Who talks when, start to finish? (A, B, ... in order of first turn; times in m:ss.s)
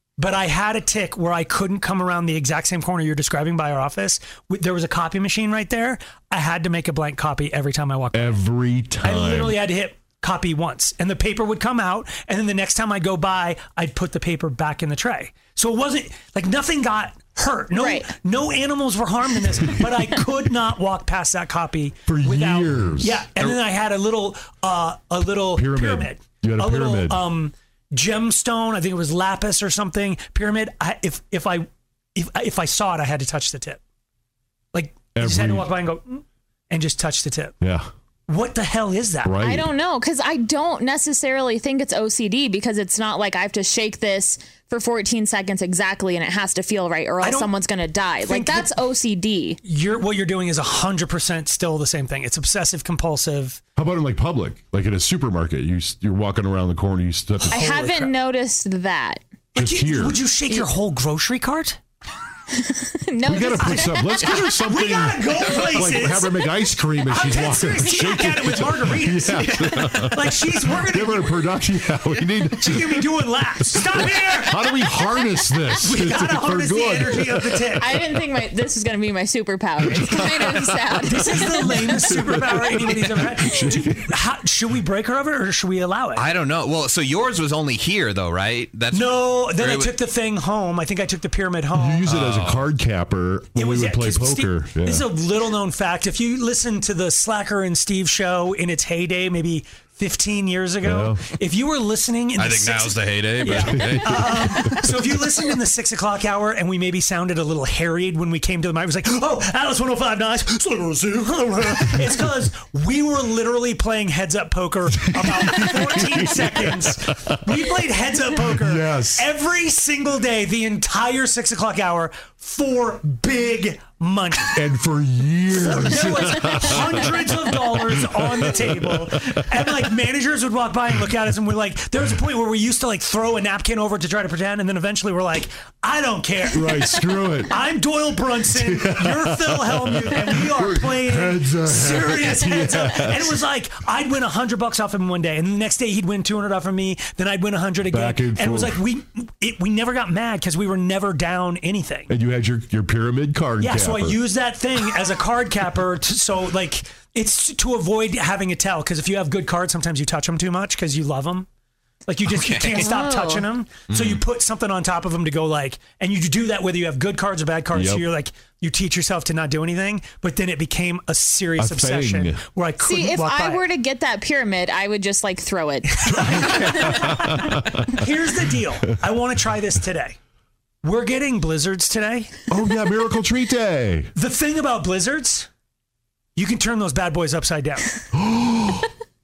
0:00.2-0:08.4 A
0:08.1-0:09.6 B
0:09.0-0:33.8 A
0:17.8-0:18.1 C
0:22.1-0:23.6 B
0:25.5-0:27.2 B
0:34.7-0:37.6 A
0:35.1-0:35.7 B
0:37.6-0:37.9 B
0:38.3-0:39.4 A
0:39.2-0:39.7 B
0:39.4-0:49.6 C
0:47.2-0:47.6 A
0:48.2-0:48.9 A
0:49.6-0:53.6 A
0:53.8-0:57.6 B
0:57.5-0:58.1 A
0:57.5-0:59.2 C
0:59.5-1:01.8 A
0:59.6-1:00.2 B
1:02.5-1:04.4 C
1:03.2-1:18.3 B
1:03.6-1:06.4 A
1:07.0-1:14.6 A
1:15.7-1:17.9 A
1:17.8-1:22.1 C
1:19.8-1:24.0 B
1:21.0-1:26.3 A
1:26.1-1:29.9 D
1:28.9-1:32.0 A
1:31.7-1:35.1 B
1:32.0-1:32.7 D
1:33.5-2:04.6 A
1:40.8-1:41.2 B
1:42.4-1:44.7 D
1:55.1-1:57.0 B
1:58.4-1:59.3 B
2:04.5-2:08.8 B
2:05.5-2:32.1 A
2:16.5-2:17.6 B
2:18.5-2:23.4 B
2:27.8-2:28.8 B
2:32.1-2:34.2 B
2:33.6-2:41.5 A
2:42.1-2:53.6 A
2:42.3-2:43.0 D
2:42.9-2:43.4 C
2:43.9-2:44.2 D
2:47.7-2:48.0 B
2:51.6-2:52.4 B
2:52.8-2:56.9 C
2:56.0-3:00.2 A
2:56.2-2:57.9 B
3:00.8-3:02.3 A
3:02.5-3:04.1 B
3:04.1-3:05.5 A
3:06.4-3:08.0 A
3:08.1-3:08.9 B